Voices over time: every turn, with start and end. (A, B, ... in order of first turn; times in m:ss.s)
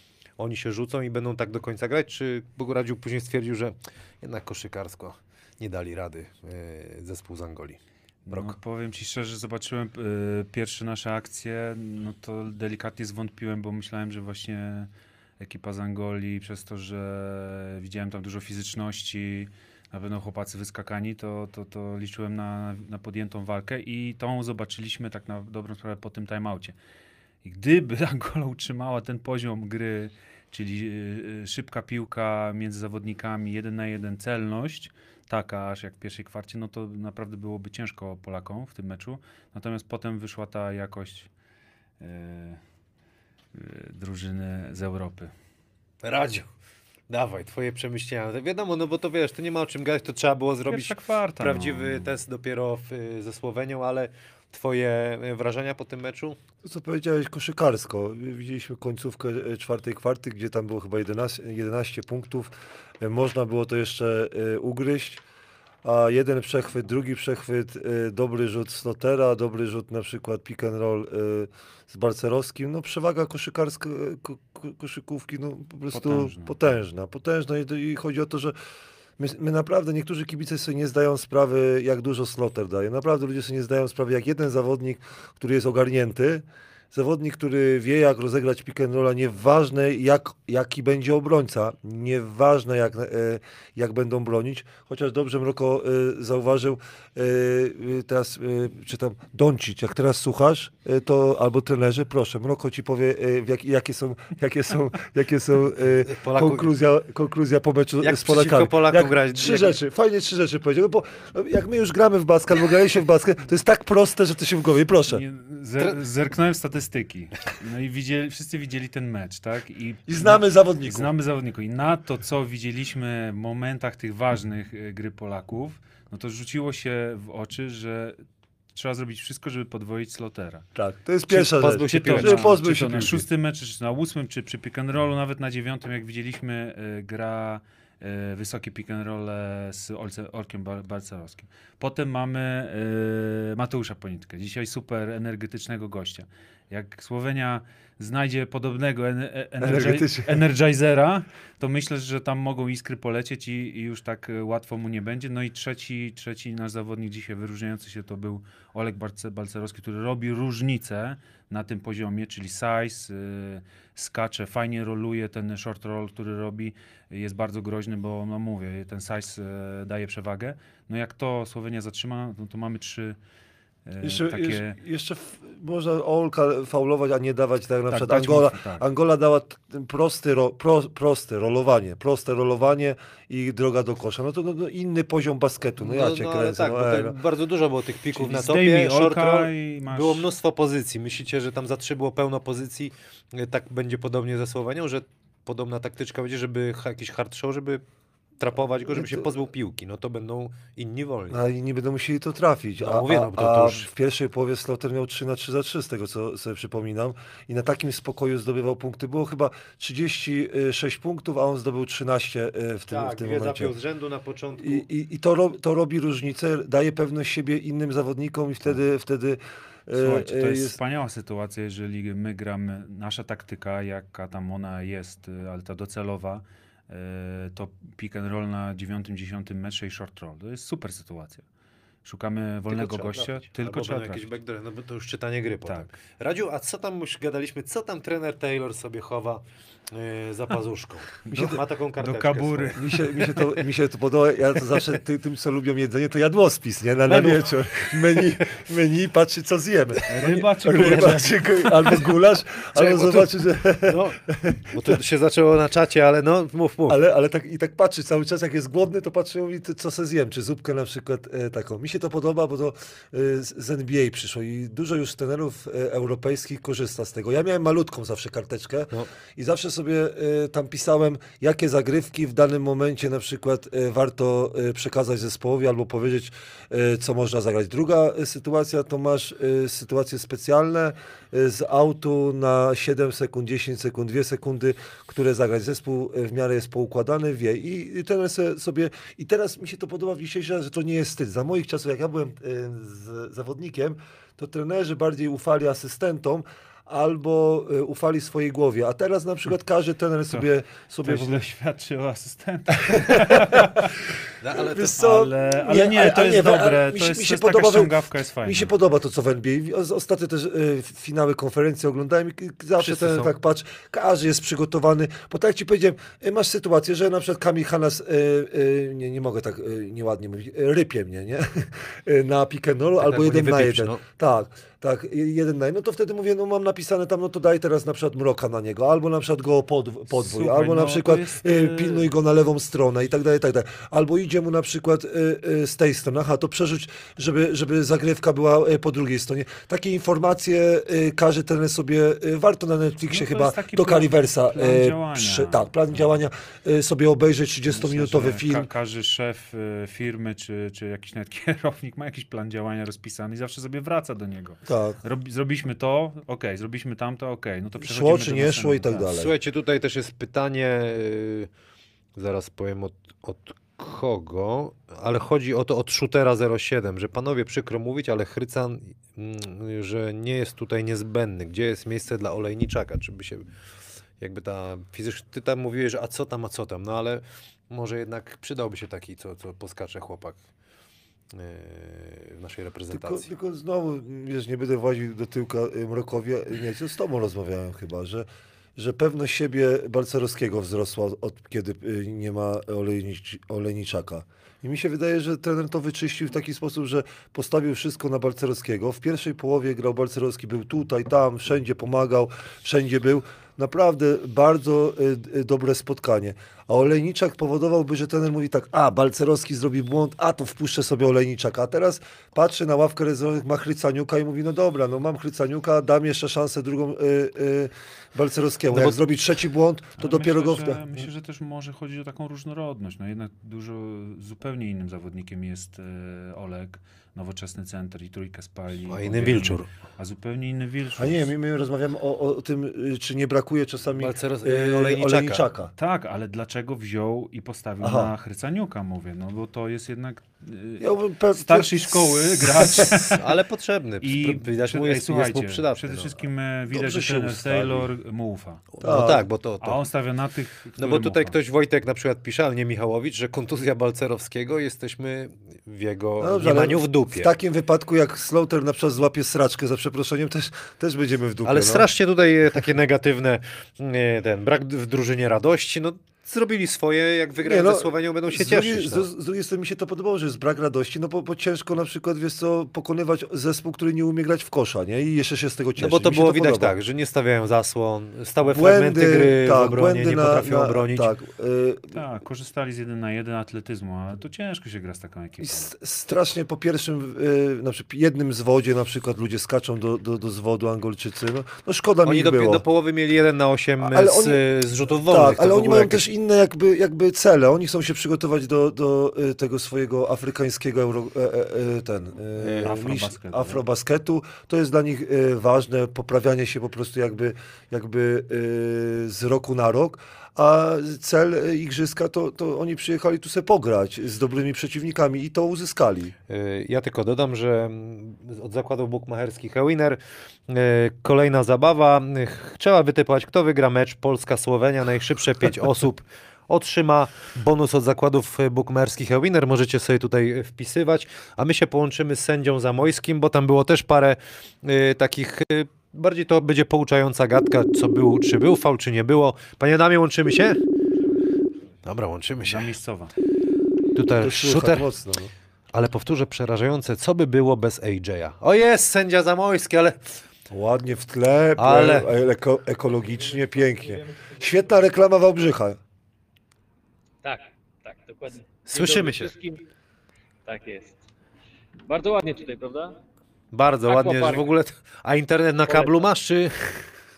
0:00.4-0:08.6 A
0:08.3-0:26.7 B
0:27.4-0:41.3 B
0:42.0-0:42.6 B
0:43.5-0:45.3 B
0:46.0-0:46.5 A
0:47.1-0:56.4 A
0:50.7-0:52.2 B
0:56.6-1:05.2 C
1:05.8-1:18.6 C
1:15.9-1:16.6 B
1:19.2-1:55.2 C
1:46.1-1:46.7 A
1:48.0-1:49.8 A
1:55.1-2:10.7 B
2:00.1-2:01.1 C
2:10.8-2:13.2 C
2:11.3-2:13.1 A
2:11.9-2:53.2 B
2:29.6-2:30.4 C
2:53.9-2:54.8 B
2:54.0-3:07.2 C
2:57.9-2:58.8 B
3:05.8-3:17.8 A
3:08.1-3:10.3 B
3:18.4-3:21.4 A
3:18.9-3:19.3 C
3:21.3-3:33.8 C
3:22.8-3:23.9 A
3:32.9-3:34.8 A
3:34.6-3:40.8 C
3:40.0-3:51.4 B
3:52.0-3:54.3 B
3:52.7-4:03.1 A
4:01.3-4:03.3 B
4:02.8-4:15.0 C
4:07.1-4:08.6 A
4:10.1-4:12.0 B
4:10.2-4:11.2 A
4:12.8-4:13.3 A
4:13.8-4:17.0 A
4:16.9-5:01.3 C
5:00.3-5:04.0 B
5:02.8-5:03.8 C
5:04.4-5:05.0 A
5:04.5-5:48.7 C
5:04.8-5:08.7 B
5:12.8-5:13.3 A
5:23.0-5:24.0 A
5:30.1-5:32.1 B
5:43.1-5:46.0 B
5:47.7-5:59.1 B
5:54.7-5:55.0 C
5:57.8-5:59.3 C
5:59.1-6:01.5 A
6:02.2-6:13.5 A
6:14.2-6:20.4 A
6:21.3-6:23.3 A
6:22.9-7:01.1 C
6:58.7-6:59.0 A
7:00.0-7:11.3 B
7:08.9-7:09.7 A
7:11.0-7:15.7 C
7:14.0-7:15.4 A
7:15.8-7:23.3 B
7:17.8-7:18.1 C
7:20.8-7:23.1 C
7:23.1-7:26.1 A
7:24.0-7:28.7 B
7:26.7-7:27.9 C
7:28.7-7:29.8 A
7:28.8-7:29.2 C
7:29.6-7:31.4 B
7:30.8-7:37.3 A
7:36.2-7:41.9 C
7:41.4-7:49.0 A
7:47.4-7:56.8 C
7:55.8-8:01.1 A
7:58.4-8:01.9 C
8:01.9-8:05.7 B
8:05.4-8:12.6 C
8:12.0-8:16.0 A
8:13.8-8:14.4 C
8:14.9-8:36.1 C
8:22.4-8:23.6 B
8:36.3-9:00.6 A
9:01.8-9:02.7 A
9:02.4-9:03.1 B
9:03.9-9:04.9 A
9:04.2-9:05.3 C
9:05.7-9:10.0 A
9:10.5-9:15.8 C
9:11.6-9:12.1 A
9:17.2-9:19.7 D
9:18.7-9:19.3 A
9:20.5-9:21.0 D
9:21.9-9:23.0 D
9:23.5-9:26.8 A
9:23.9-9:24.5 D
9:25.7-9:26.1 D